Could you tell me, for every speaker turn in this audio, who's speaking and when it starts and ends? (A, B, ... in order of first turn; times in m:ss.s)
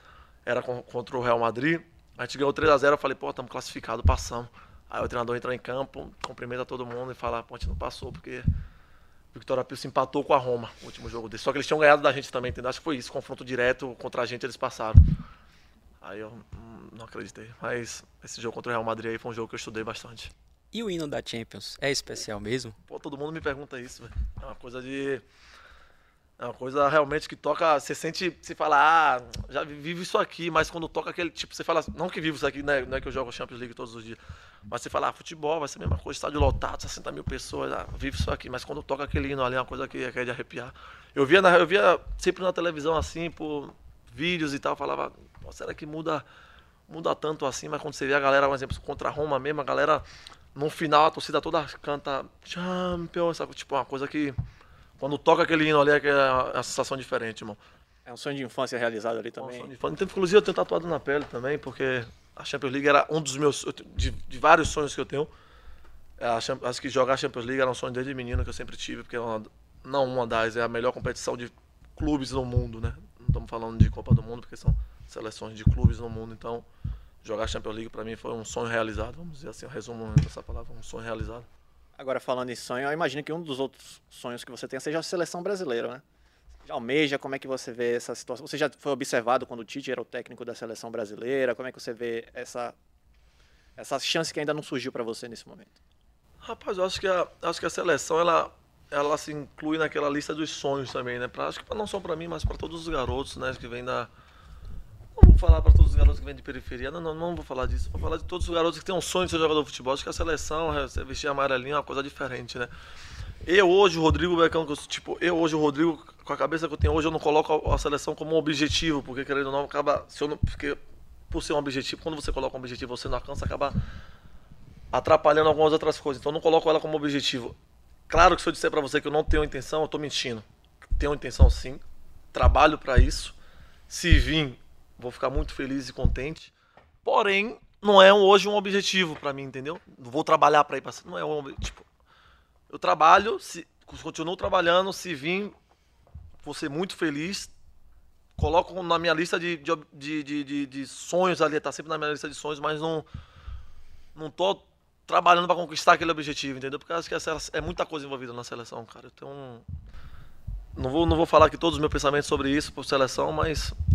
0:00.5-0:08.5 A
0:09.3-0:15.0 A
0:16.0-0:20.3 A
0:20.7-0:22.8 B
0:22.9-0:25.2 A
0:26.4-0:46.2 A
0:46.9-0:50.0 A
0:50.6-0:54.4 A
0:55.0-0:57.6 A
0:58.1-0:59.7 C
0:59.4-1:05.3 A
1:06.2-1:16.7 A
1:17.2-1:21.5 A
1:22.0-1:26.0 C
1:26.7-1:32.8 C
1:33.8-1:35.8 C
1:36.4-1:44.1 A
1:45.2-1:52.7 A
1:53.4-2:00.8 A
2:01.3-2:03.8 A
2:04.9-2:07.6 A
2:08.1-2:10.4 A
2:11.0-2:11.8 A
2:12.3-2:13.4 A
2:13.9-2:16.5 A
2:17.0-2:21.8 A
2:22.7-2:25.5 A
2:26.4-2:27.5 A
2:28.4-2:33.1 A
2:34.2-2:39.6 A
2:40.8-2:43.8 A